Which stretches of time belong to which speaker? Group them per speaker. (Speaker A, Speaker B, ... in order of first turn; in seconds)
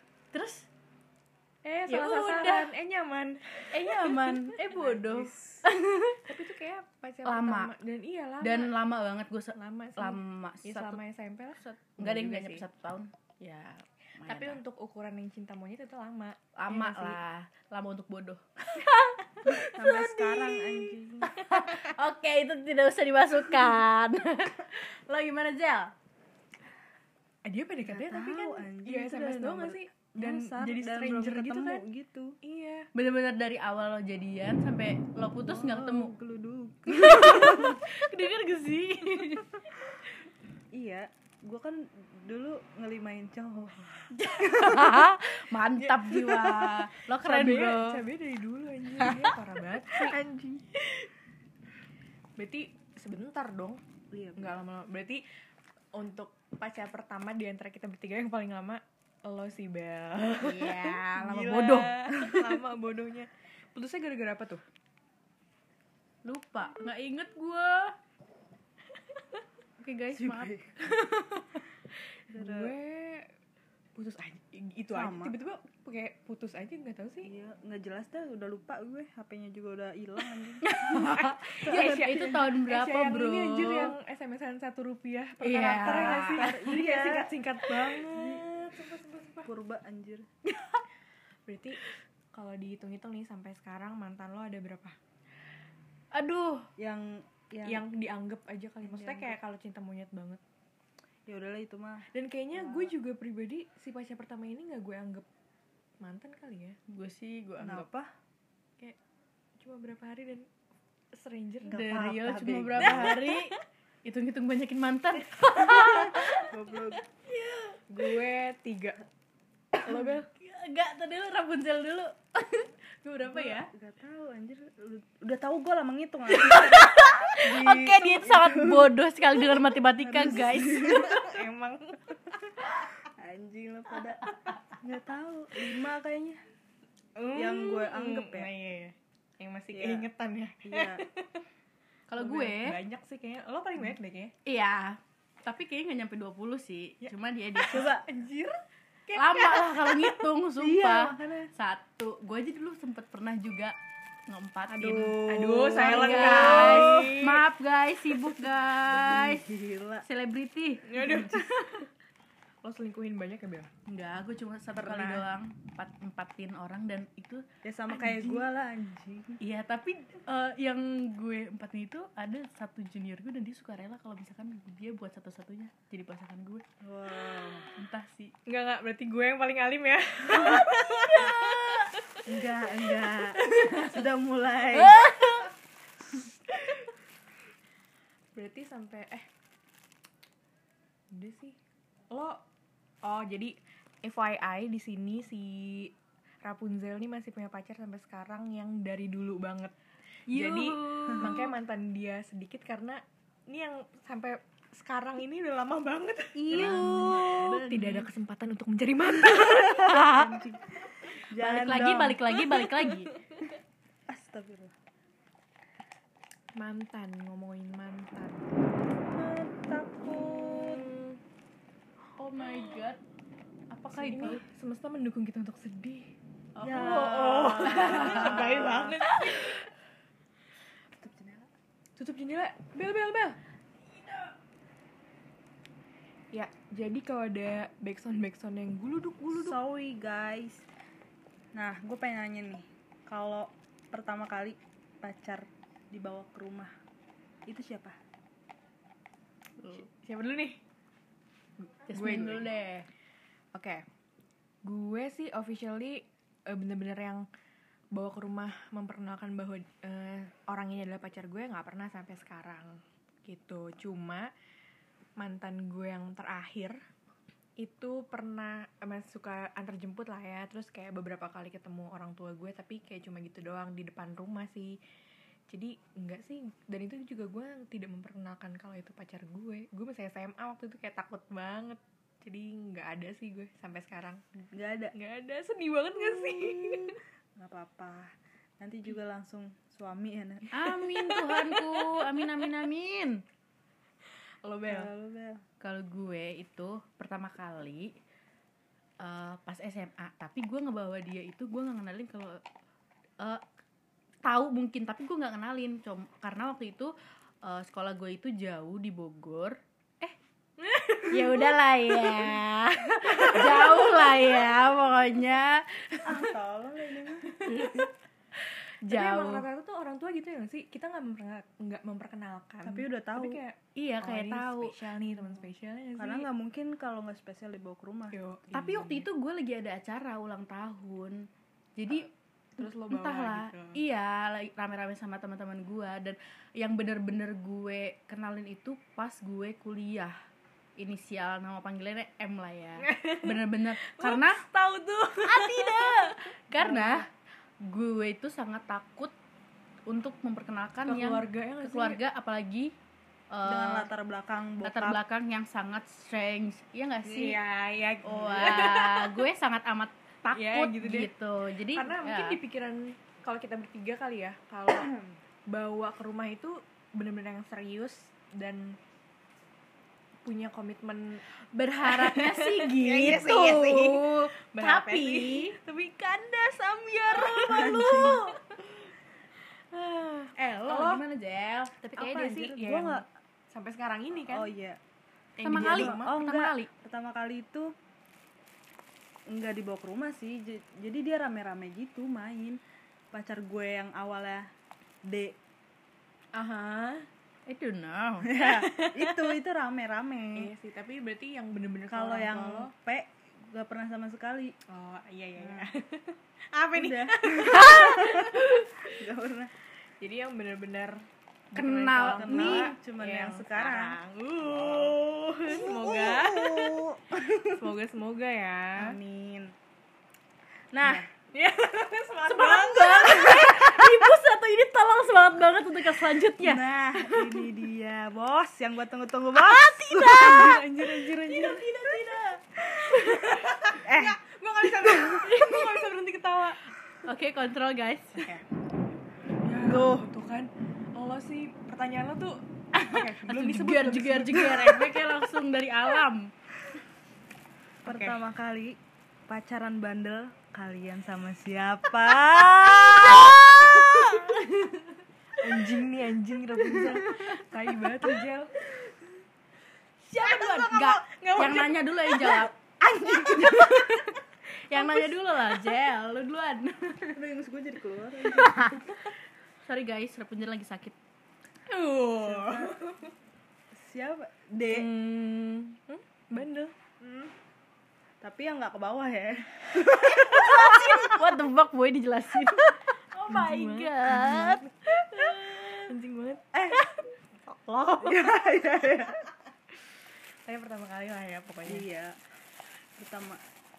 Speaker A: 0.3-0.7, 1.9-2.7, 3.7-6.2, 7.2-7.7, 8.4-11.0, 11.6-14.6, 16.6-25.9, 32.9-36.1, 36.9-39.6, 44.1-48.0, 49.0-49.3, 60.4-62.0, 66.2-67.9, 69.8-71.6, 80.6-83.9, 85.4-86.5, 90.5-90.8, 96.1-96.7, 106.9-107.9, 111.7-117.8, 119.8-123.7, 126.3-131.2, 142.1-142.8, 144.4-147.9, 149.2-153.7, 154.3-159.4, 160.0-161.9, 163.9-168.3, 169.4-176.6, 177.8-178.3, 180.4-181.9, 184.7-185.5, 200.3-201.5, 206.5-208.1, 209.5-210.3, 211.4-213.1, 222.2-223.0, 223.7-224.4, 226.6-229.6, 251.9-252.9, 290.5-293.2, 295.6-297.9, 299.0-302.4, 304.2-306.9, 307.4-310.1, 311.1-316.3, 317.5-317.9, 318.8-319.5, 323.8-324.8, 328.5-340.1, 340.8-344.4, 345.2-347.1, 347.6-349.1, 349.9-352.7, 353.3-353.9, 354.6-357.4, 358.0-362.4, 371.5-375.6, 376.9-377.9, 380.4-381.8, 385.4-386.7, 397.5-399.3, 407.6-408.4, 411.5-412.8, 414.6-415.9, 422.2-427.3, 429.4-433.7, 434.6-438.3, 442.7-446.3, 452.7-455.7, 456.7-458.2, 460.0-462.5, 463.2-467.2, 468.3-469.1, 469.7-470.9, 471.7-472.7, 480.0-485.9, 487.5-488.0
Speaker B: 1.6-5.4, 6.3-8.8, 9.5-12.7, 14.2-17.2, 27.4-31.8, 32.4-32.9, 47.2-50.2, 52.4-53.8, 54.4-55.2, 55.9-61.0, 61.6-64.6, 72.4-73.2, 74.0-77.3, 81.2-89.5, 91.5-91.8, 92.3-95.0, 97.7-100.4, 102.1-105.2, 106.0-106.8, 109.6-110.5, 111.1-112.0, 112.9-113.3, 117.9-119.0, 119.8-120.3, 130.9-132.7, 137.2-141.4, 142.2-144.3, 147.0-148.6, 149.1-150.3, 155.2-157.4, 160.9-161.4, 162.6-163.7, 178.5-182.0, 188.3-189.3, 191.1-191.6, 192.1-192.4, 193.0-195.9, 196.4-199.7, 200.3-210.0, 212.4-213.5, 216.6-218.5, 220.1-221.2, 223.9-226.1, 226.8-229.6, 232.0-233.4, 236.3-239.6, 249.8-250.6, 251.6-252.5, 253.5-253.8, 254.6-257.3, 257.9-264.3, 265.2-266.8, 267.6-274.8, 275.5-284.2, 284.9-287.0, 290.8-292.4, 294.4-294.9, 310.6-312.3, 313.0-314.5, 317.4-317.9, 318.9-326.3, 328.1-328.4, 332.6-333.8, 342.8-346.2, 350.9-352.0, 357.1-359.2, 360.3-361.1, 361.7-364.9, 365.5-368.8, 370.2-371.2, 371.8-378.7, 379.7-381.1, 381.8-384.5, 385.4-386.2, 396.4-397.1, 400.4-402.7, 404.7-408.2, 410.0-411.0, 411.5-416.8, 417.5-418.9, 420.8-423.8, 430.1-432.0, 432.6-436.6, 439.4-444.9, 447.9-448.1, 455.4-458.5, 460.2-462.5, 463.1-463.3, 464.8-465.1, 474.7-476.7, 483.3-484.7, 485.9-486.4, 490.5-491.9
Speaker C: 19.5-21.5, 27.8-32.4, 35.4-37.8, 40.7-45.0, 54.1-54.6, 61.2-62.5, 70.1-70.9, 72.3-72.7, 74.9-75.4, 77.2-82.4, 85.8-88.5, 89.5-90.3, 96.8-97.8, 98.8-99.4, 101.3-102.9, 107.6-108.1, 111.7-113.3, 115.7-117.0, 123.3-131.3, 133.2-136.4, 137.3-138.5, 139.7-140.1, 140.7-141.0, 147.7-148.1, 150.6-151.5, 154.7-157.2, 159.0-160.1, 164.8-165.3, 167.6-169.4, 176.8-177.7, 182.3-185.1, 206.3-207.3, 209.3-212.2, 214.1-214.7, 219.1-220.9, 226.6-229.2, 230.9-231.5, 239.3-240.6, 241.6-246.7, 247.5-247.9, 284.5-284.9, 286.0-290.8, 294.7-295.4, 316.1-317.3, 322.6-323.4, 326.0-329.0, 346.6-347.1, 353.4-355.0, 377.5-378.2, 381.8-383.1, 384.3-384.8, 385.6-387.7, 389.3-392.6, 393.1-394.4, 395.1-395.3, 398.3-400.5, 401.9-404.5, 405.4-405.7, 406.7-409.5, 412.0-414.9, 415.5-417.5, 418.8-419.5, 420.7-421.1, 426.4-431.5, 433.8-434.2, 439.6-440.1, 447.9-448.8, 449.3-454.2, 462.8-463.8, 467.1-469.0, 472.2-472.8, 473.8-474.9, 478.2-480.9, 486.5-486.9, 488.0-489.2, 491.6-492.2, 493.0-493.4